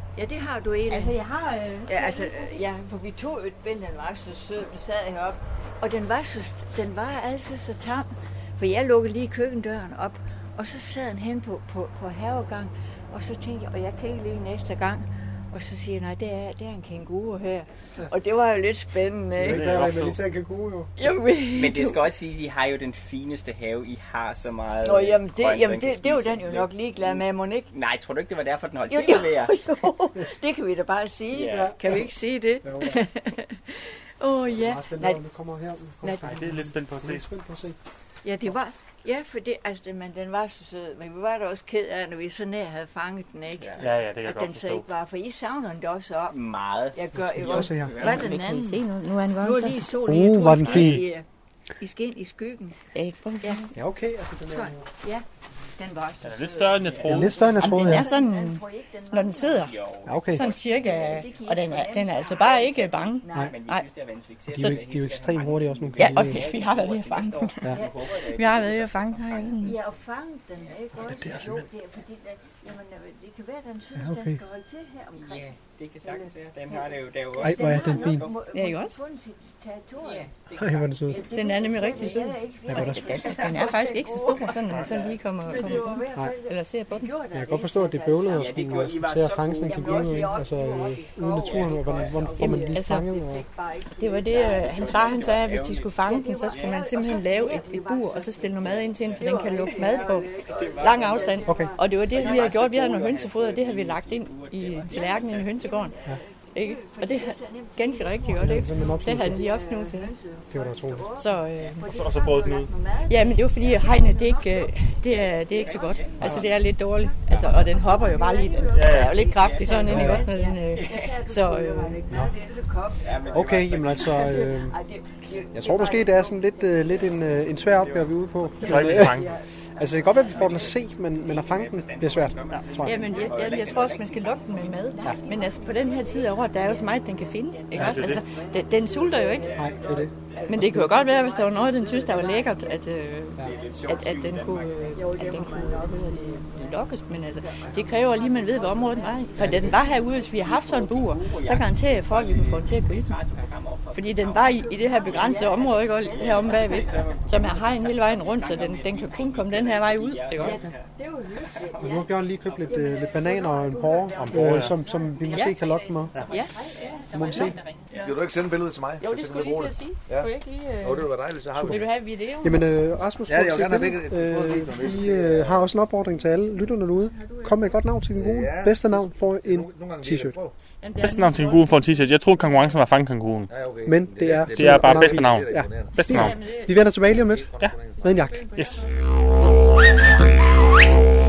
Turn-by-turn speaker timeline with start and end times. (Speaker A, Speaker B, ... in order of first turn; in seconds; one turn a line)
Speaker A: 0.1-1.2
Speaker B: 0.9-2.6
Speaker A: 1.9-19.9
Speaker C: 19.4-20.9
Speaker D: 19.5-20.2
Speaker A: 21.0-22.1
Speaker E: 21.6-29.6
Speaker A: 24.8-27.7
Speaker A: 28.9-35.2
Speaker E: 31.3-31.7
Speaker C: 31.5-32.1
Speaker C: 32.6-33.0
Speaker C: 34.4-37.8
Speaker D: 36.2-37.2
Speaker A: 38.2-46.4
Speaker E: 43.5-43.9
Speaker D: 43.8-44.9
Speaker E: 46.3-48.4
Speaker A: 46.9-51.3
Speaker C: 47.1-48.0
Speaker B: 48.0-50.0
Speaker C: 50.0-51.0
Speaker D: 50.6-51.0
Speaker A: 51.8-52.8
Speaker B: 52.9-53.7
Speaker C: 53.7-54.9
Speaker A: 54.5-55.2
Speaker A: 55.8-59.7
Speaker D: 56.2-57.6
Speaker C: 57.0-58.1
Speaker B: 57.5-63.9
Speaker E: 59.5-69.8
Speaker C: 60.1-60.5
Speaker A: 60.8-63.6
Speaker C: 64.5-66.4
Speaker B: 66.0-69.8
Speaker A: 67.7-68.0
Speaker A: 69.6-75.5
Speaker C: 70.9-71.7
Speaker C: 74.0-74.4
Speaker E: 75.2-78.3
Speaker A: 76.0-80.3
Speaker C: 77.4-78.3
Speaker B: 78.5-79.0
Speaker E: 80.0-82.2
Speaker C: 80.6-81.2
Speaker A: 81.1-88.9
Speaker B: 81.3-87.1
Speaker C: 82.7-83.0
Speaker E: 82.8-83.8
Speaker E: 84.8-85.8
Speaker C: 87.3-93.5
Speaker E: 88.3-90.4
Speaker A: 89.6-102.6
Speaker E: 91.3-92.3
Speaker B: 92.4-93.1
Speaker B: 94.0-106.0
Speaker E: 94.3-96.9
Speaker E: 98.6-101.5
Speaker C: 101.5-101.7
Speaker E: 102.1-105.9
Speaker A: 104.9-127.3
Speaker B: 106.5-110.1
Speaker C: 108.4-109.5
Speaker C: 110.5-111.1
Speaker B: 111.2-111.8
Speaker D: 111.9-112.7
Speaker B: 113.1-122.0
Speaker E: 115.4-116.3
Speaker C: 116.2-116.5
Speaker D: 118.7-119.2
Speaker E: 118.9-120.2
Speaker C: 119.9-120.3
Speaker E: 120.7-121.2
Speaker C: 122.1-122.3
Speaker E: 123.0-124.4
Speaker C: 123.3-124.8
Speaker C: 125.5-133.1
Speaker E: 127.6-128.9
Speaker A: 128.6-130.8
Speaker D: 128.6-129.3
Speaker E: 130.1-135.0
Speaker B: 132.8-139.6
Speaker A: 133.0-133.7
Speaker A: 134.8-142.8
Speaker D: 137.8-138.2
Speaker E: 139.3-141.3
Speaker C: 139.6-140.9
Speaker B: 140.5-153.2
Speaker E: 143.4-145.9
Speaker A: 144.9-150.5
Speaker E: 149.4-160.9
Speaker C: 149.4-149.7
Speaker B: 153.9-160.6
Speaker A: 154.3-157.1
Speaker A: 160.4-168.1
Speaker E: 161.5-162.8
Speaker C: 161.8-166.2
Speaker D: 164.3-164.7
Speaker B: 165.3-165.6
Speaker E: 166.1-168.1
Speaker B: 166.3-167.6
Speaker C: 167.1-167.6
Speaker F: 168.0-171.9
Speaker B: 169.0-172.6
Speaker C: 171.6-171.8
Speaker C: 172.4-180.4
Speaker F: 173.3-175.7
Speaker B: 177.0-177.8
Speaker F: 178.1-180.6
Speaker B: 180.8-182.8
Speaker D: 181.0-183.5
Speaker F: 183.5-186.2
Speaker C: 183.9-187.5
Speaker D: 184.4-186.4
Speaker B: 186.1-186.8
Speaker F: 187.0-188.2
Speaker C: 188.0-188.4
Speaker B: 188.1-188.9
Speaker D: 188.6-188.9